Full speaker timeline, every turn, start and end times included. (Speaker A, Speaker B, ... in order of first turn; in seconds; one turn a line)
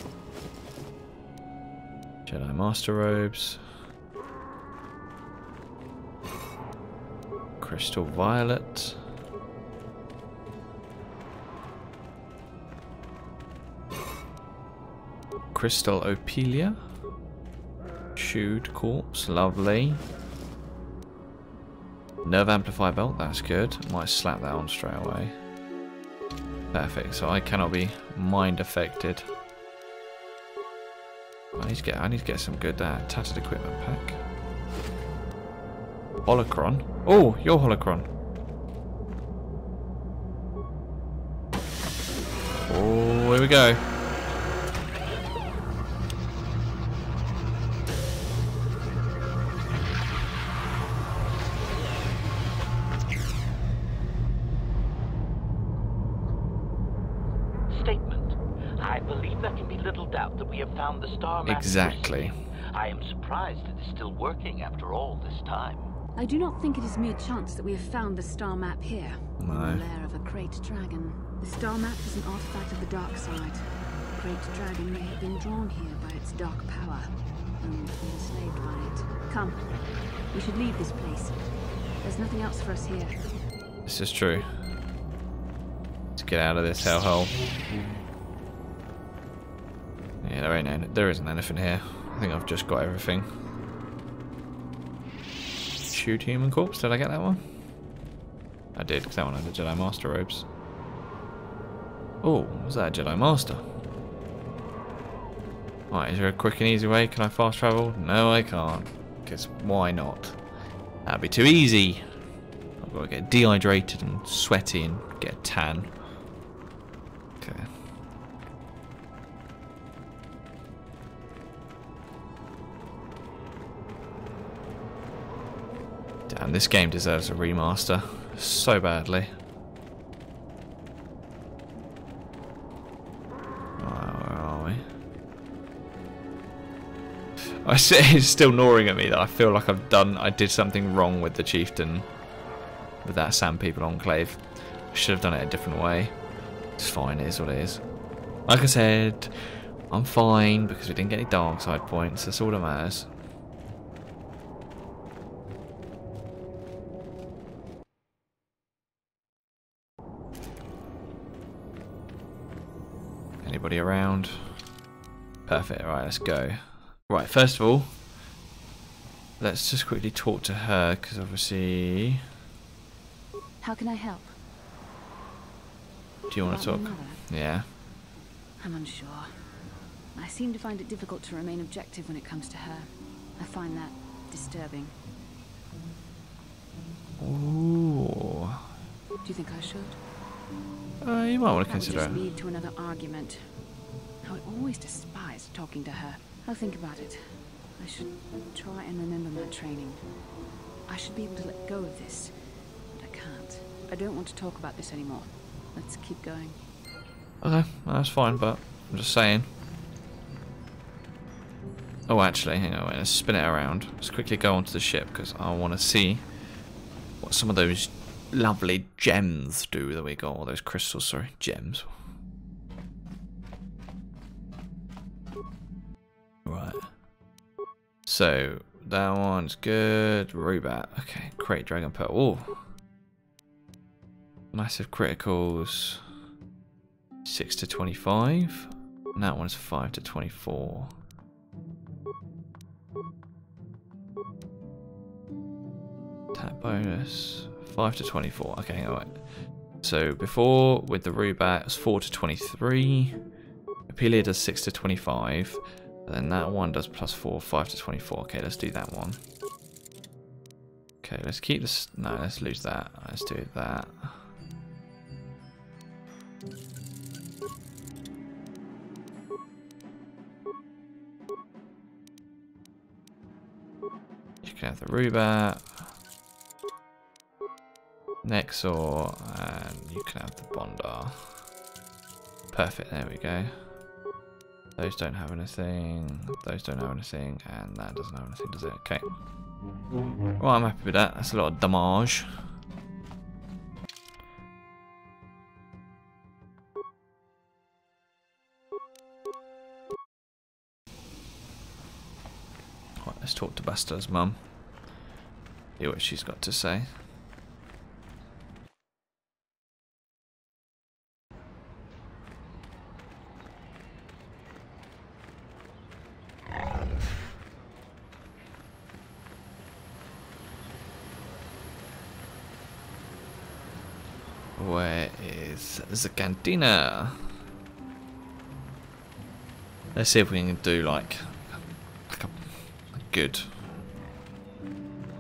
Speaker A: 2.2-3.6
Speaker A: 7.6-9.0
Speaker A: 15.5-16.8
Speaker A: 18.1-20.0
Speaker A: 22.2-25.4
Speaker A: 26.7-29.2
Speaker A: 31.5-34.2
Speaker A: 36.2-38.1
Speaker A: 42.7-43.8
Speaker B: 57.7-65.9
Speaker A: 61.4-62.3
Speaker C: 66.1-81.5
Speaker A: 69.4-69.8
Speaker C: 82.0-83.2
Speaker A: 83.8-84.5
Speaker A: 86.2-87.3
Speaker A: 90.2-93.3
Speaker A: 95.9-97.4
Speaker A: 98.7-100.5
Speaker A: 102.2-103.6
Speaker A: 105.9-110.4
Speaker A: 111.0-112.0
Speaker A: 112.8-116.0
Speaker A: 117.4-117.7
Speaker A: 126.3-129.3
Speaker A: 133.8-134.8
Speaker A: 137.6-142.1
Speaker A: 143.0-146.2
Speaker A: 146.8-147.8
Speaker A: 148.4-153.1
Speaker A: 163.4-164.6
Speaker A: 165.4-168.0
Speaker A: 169.4-172.2
Speaker C: 173.6-174.3
Speaker A: 176.3-177.7
Speaker C: 176.4-177.2
Speaker C: 178.6-179.5
Speaker C: 180.1-184.9
Speaker A: 187.2-188.6
Speaker C: 189.2-190.0
Speaker A: 191.0-192.2
Speaker C: 191.6-193.6
Speaker C: 194.2-200.0
Speaker C: 200.9-202.3
Speaker C: 202.9-206.6
Speaker A: 207.4-209.5
Speaker A: 212.1-216.3
Speaker A: 217.2-221.9
Speaker A: 226.4-226.9
Speaker A: 228.1-232.7
Speaker A: 234.5-236.0
Speaker A: 237.2-240.9
Speaker A: 246.3-249.3
Speaker A: 249.8-253.2
Speaker A: 253.9-259.2
Speaker A: 261.0-264.2
Speaker A: 274.4-275.9
Speaker A: 278.2-281.5
Speaker A: 282.5-283.5
Speaker A: 284.8-289.1
Speaker A: 290.4-292.3
Speaker A: 303.0-304.4
Speaker A: 305.8-306.9
Speaker A: 324.6-327.3
Speaker A: 329.9-333.5